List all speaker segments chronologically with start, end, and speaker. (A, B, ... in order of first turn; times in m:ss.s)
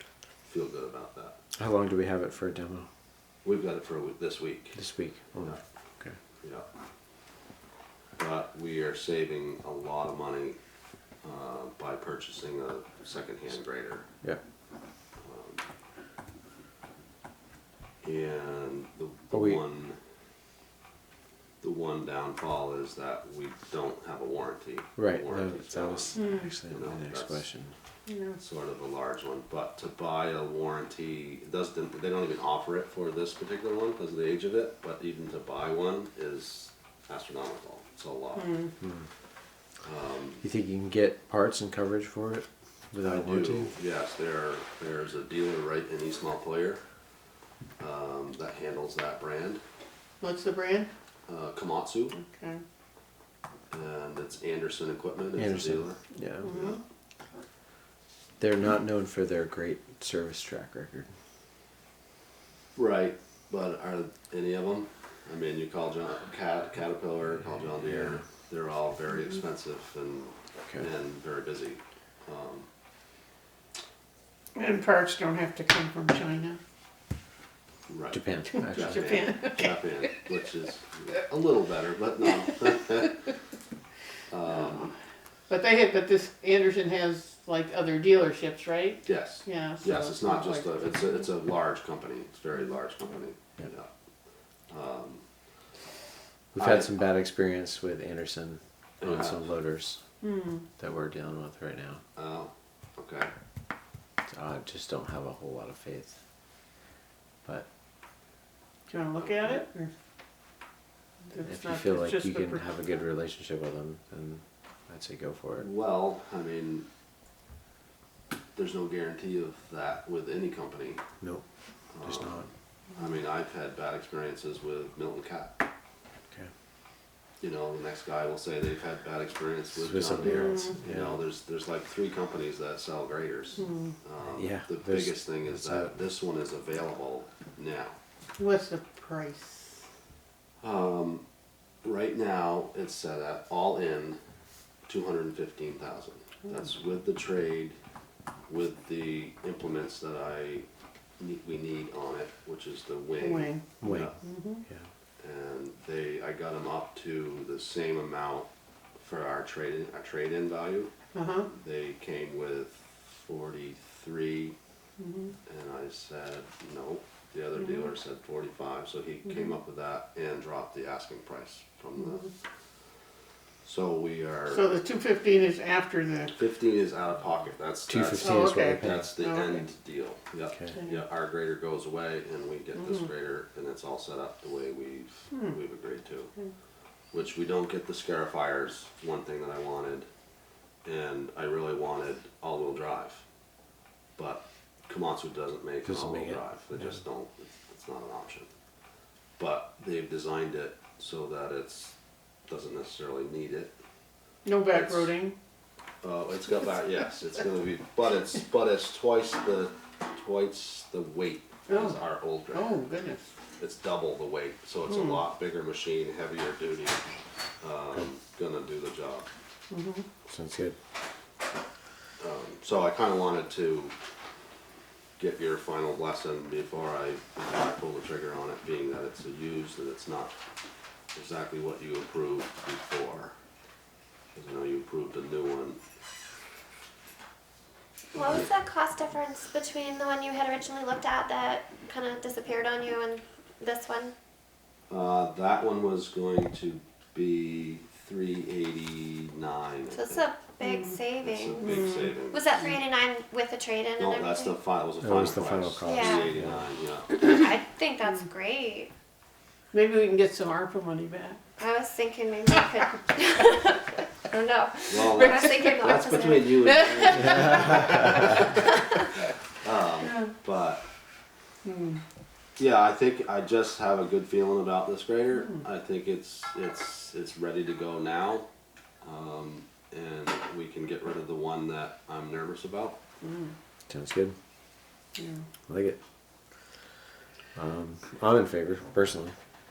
0:00.4-0:01.4 A
0:01.6-0:02.9 B
0:03.4-0:04.8 A
0:04.8-0:06.2 B
0:06.4-0:06.7 A
0:08.2-0:10.6 A
0:11.2-0:14.1 A
0:15.2-0:15.6 A
0:18.0-0:20.0 A
0:19.3-0:19.6 B
0:21.6-0:27.4 A
0:25.0-0:27.7 B
0:26.2-0:26.5 C
0:28.1-0:28.4 C
0:28.4-0:38.6 A
0:38.3-0:38.7 C
0:38.8-0:39.1 B
0:39.8-0:40.4 A
0:40.4-0:43.7 B
0:43.0-0:46.8 A
0:47.8-0:49.6 A
0:50.2-0:50.9 C
0:51.3-0:52.2 A
0:52.2-0:52.6 C
0:53.7-0:56.0 A
0:55.4-0:56.5 B
0:56.4-0:56.8 C
0:56.5-0:56.8 A
0:58.4-1:01.1 B
1:02.7-1:12.7 A
1:14.5-1:16.6 C
1:17.9-1:23.2 A
1:18.1-1:19.1 B
1:18.5-1:20.1 C
1:24.3-1:24.9 A
1:25.5-1:31.2 C
1:29.0-1:33.9 A
1:34.7-1:35.2 A
1:36.5-1:40.0 B
1:36.6-1:36.9 A
1:39.0-1:39.5 A
1:40.2-1:40.6 C
1:40.8-1:42.0 B
1:42.1-1:43.3 A
1:44.3-1:46.2 B
1:48.9-1:49.9 C
1:49.2-1:49.6 A
1:51.3-1:52.7 C
1:51.4-1:55.7 B
1:55.6-1:56.9 A
1:58.6-2:01.0 A
2:01.9-2:05.5 A
2:02.0-2:02.5 B
2:07.4-2:18.0 A
2:09.8-2:11.2 B
2:10.3-2:10.7 C
2:13.6-2:13.9 C
2:14.4-2:16.0 B
2:18.4-2:19.8 C
2:20.6-2:21.2 A
2:21.8-2:24.2 A
2:24.9-2:27.8 A
2:28.5-2:30.6 A
2:31.2-2:34.1 A
2:33.2-2:34.6 C
2:33.8-2:34.1 B
2:35.2-2:38.5 A
2:39.0-2:40.9 A
2:41.1-2:41.5 C
2:41.4-2:44.5 A
2:45.0-2:45.3 C
2:45.4-2:52.3 A
2:53.6-2:54.7 A
2:54.5-2:56.3 C
2:56.3-3:06.3 A
2:57.9-2:59.1 B
2:58.2-2:59.6 C
3:07.1-3:10.1 A
3:10.8-3:13.2 A
3:14.2-3:18.5 A
3:15.8-3:16.9 B
3:19.4-3:22.0 A
3:22.5-3:23.8 A
3:24.4-3:25.4 C
3:24.7-3:25.1 A
3:26.0-3:32.7 A
3:31.7-3:33.3 C
3:33.6-3:37.0 A
3:34.9-3:35.2 C
3:37.6-3:39.3 A
3:39.7-3:40.0 C
3:40.3-3:40.8 B
3:42.2-3:44.0 A
3:45.2-3:50.3 A
3:51.1-3:53.3 A
3:54.3-3:55.8 A
3:58.1-4:04.1 D
3:58.1-3:58.5 A
4:04.9-4:10.3 A
4:09.9-4:14.6 D
4:10.6-4:11.0 C
4:11.2-4:12.8 A
4:11.6-4:12.1 C
4:14.0-4:17.2 A
4:15.0-4:16.6 B
4:15.8-4:16.3 D
4:17.2-4:18.9 D
4:19.7-4:21.4 C
4:21.6-4:27.0 D
4:24.9-4:28.2 A
4:25.2-4:25.8 C
4:26.6-4:28.4 C
4:29.6-4:30.8 A
4:31.6-4:32.0 C
4:32.6-4:38.5 A
4:39.0-4:43.0 A
4:43.2-4:43.5 C
4:43.9-4:44.4 B
4:45.2-4:45.4 C
4:45.7-4:46.0 B
4:47.6-4:49.3 B